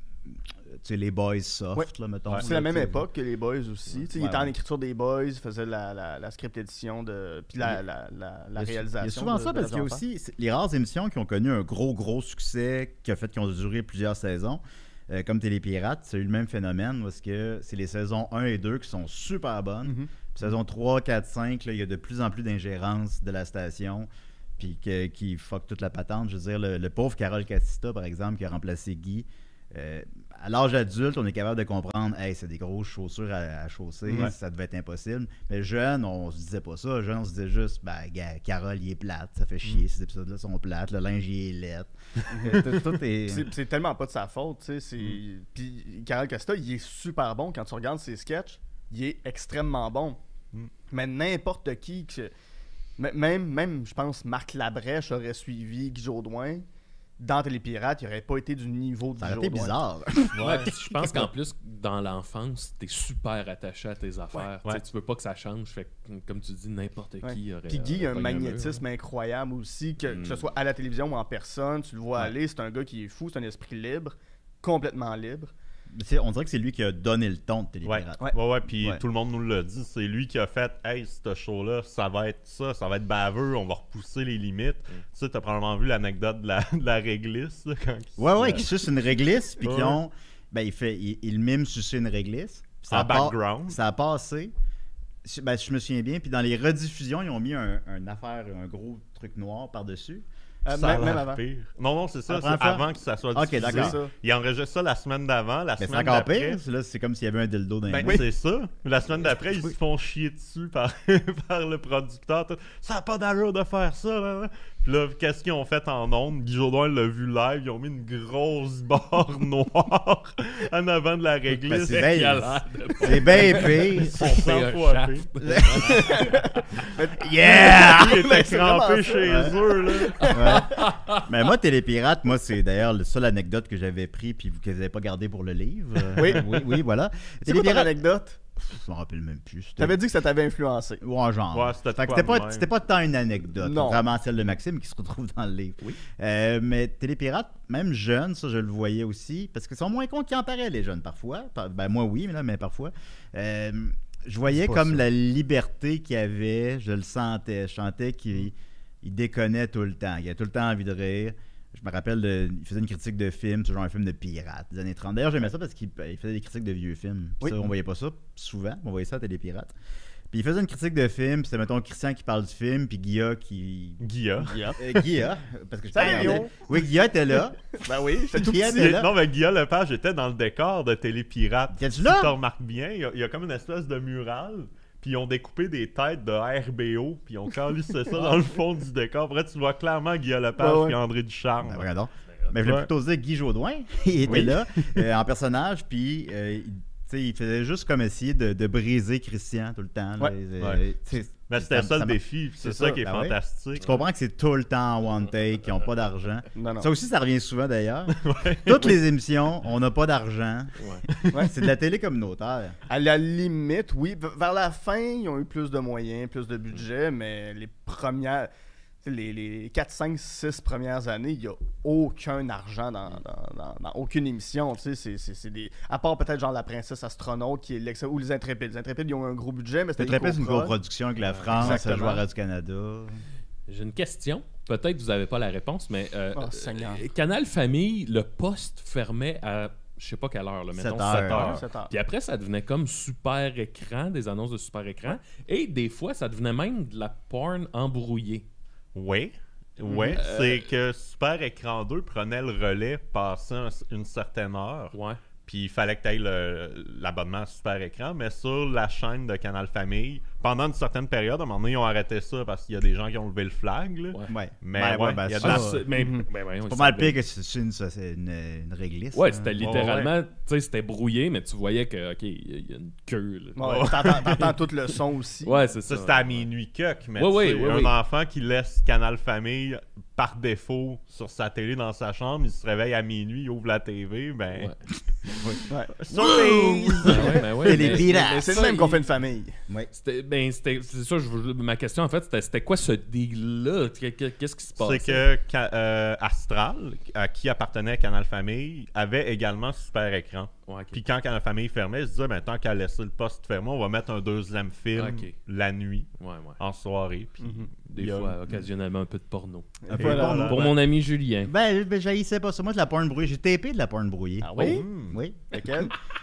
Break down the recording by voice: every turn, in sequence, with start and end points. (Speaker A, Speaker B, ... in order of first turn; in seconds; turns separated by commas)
Speaker A: 0.3-3.1, Speaker B: 1.8-10.0, Speaker A: 4.1-4.5, Speaker A: 8.6-43.5, Speaker B: 19.8-20.1, Speaker B: 42.3-42.7, Speaker B: 43.3-50.2, Speaker B: 50.9-52.3, Speaker B: 53.0-56.6, Speaker B: 57.2-59.7, Speaker A: 59.2-61.3, Speaker C: 60.3-60.7, Speaker D: 60.4-68.8, Speaker B: 67.2-75.5, Speaker D: 70.1-70.5, Speaker A: 75.9-78.2, Speaker C: 77.8-88.8, Speaker A: 88.2-94.5, Speaker C: 89.6-90.0, Speaker C: 92.9-93.8, Speaker A: 95.2-100.2, Speaker B: 100.7-101.4, Speaker C: 100.7-106.6, Speaker A: 102.3-104.0, Speaker B: 103.6-104.1, Speaker A: 105.8-108.2, Speaker C: 107.9-122.2, Speaker A: 109.3-109.7, Speaker A: 121.6-124.3, Speaker D: 121.9-126.4, Speaker C: 123.9-126.0, Speaker A: 125.4-126.2, Speaker B: 125.9-130.7, Speaker A: 127.2-128.2, Speaker C: 127.4-130.3, Speaker A: 129.2-129.6, Speaker D: 130.3-131.2, Speaker A: 130.3-138.0, Speaker B: 136.2-136.6, Speaker B: 137.5-138.4, Speaker A: 138.6-140.0, Speaker B: 139.8-141.0, Speaker A: 141.0-169.7, Speaker C: 141.5-142.7, Speaker B: 143.6-144.0, Speaker B: 154.6-155.0, Speaker B: 167.4-167.7, Speaker A: 170.3-174.0, Speaker C: 174.0-175.1, Speaker B: 174.4-174.8, Speaker A: 174.8-177.6, Speaker B: 175.9-176.6, Speaker C: 176.0-176.4, Speaker B: 177.8-178.8, Speaker A: 178.3-179.1, Speaker C: 178.7-191.9, Speaker A: 181.7-182.3, Speaker B: 190.6-191.0, Speaker A: 191.6-202.2, Speaker C: 192.6-192.9, Speaker C: 201.5-203.9, Speaker B: 202.6-203.0, Speaker A: 203.0-212.8, Speaker B: 206.6-206.9, Speaker C: 208.1-209.0, Speaker D: 210.8-211.1, Speaker B: 212.9-218.5, Speaker B: 219.0-230.8, Speaker A: 230.0-233.2, Speaker D: 231.2-231.8, Speaker B: 231.5-232.2, Speaker D: 233.7-248.5, Speaker B: 236.3-237.0, Speaker A: 240.7-241.6, Speaker C: 241.3-241.6, Speaker B: 241.3-241.9, Speaker C: 248.9-254.9, Speaker B: 249.9-250.2, Speaker D: 250.1-250.7, Speaker D: 254.9-255.2, Speaker C: 255.5-265.7, Speaker A: 264.3-265.9, Speaker D: 265.4-267.2, Speaker B: 266.0-266.2, Speaker A: 266.7-269.8, Speaker D: 269.1-274.5, Speaker C: 269.6-270.1, Speaker B: 273.6-275.6, Speaker C: 273.6-274.5, Speaker D: 275.4-276.5, Speaker C: 275.9-284.7, Speaker D: 277.2-278.0, Speaker D: 284.5-284.8, Speaker A: 285.3-288.7, Speaker C: 285.9-287.4, Speaker D: 287.0-289.0, Speaker B: 287.3-289.6, Speaker D: 289.9-295.2, Speaker C: 294.8-308.4, Speaker D: 300.7-301.0, Speaker D: 304.9-305.4, Speaker D: 306.2-306.6, Speaker B: 307.4-307.7, Speaker D: 307.9-311.5, Speaker B: 309.8-310.6, Speaker A: 309.9-310.7, Speaker C: 309.9-310.7, Speaker A: 311.5-315.9, Speaker B: 314.4-314.9, Speaker C: 314.6-315.2, Speaker B: 315.5-315.9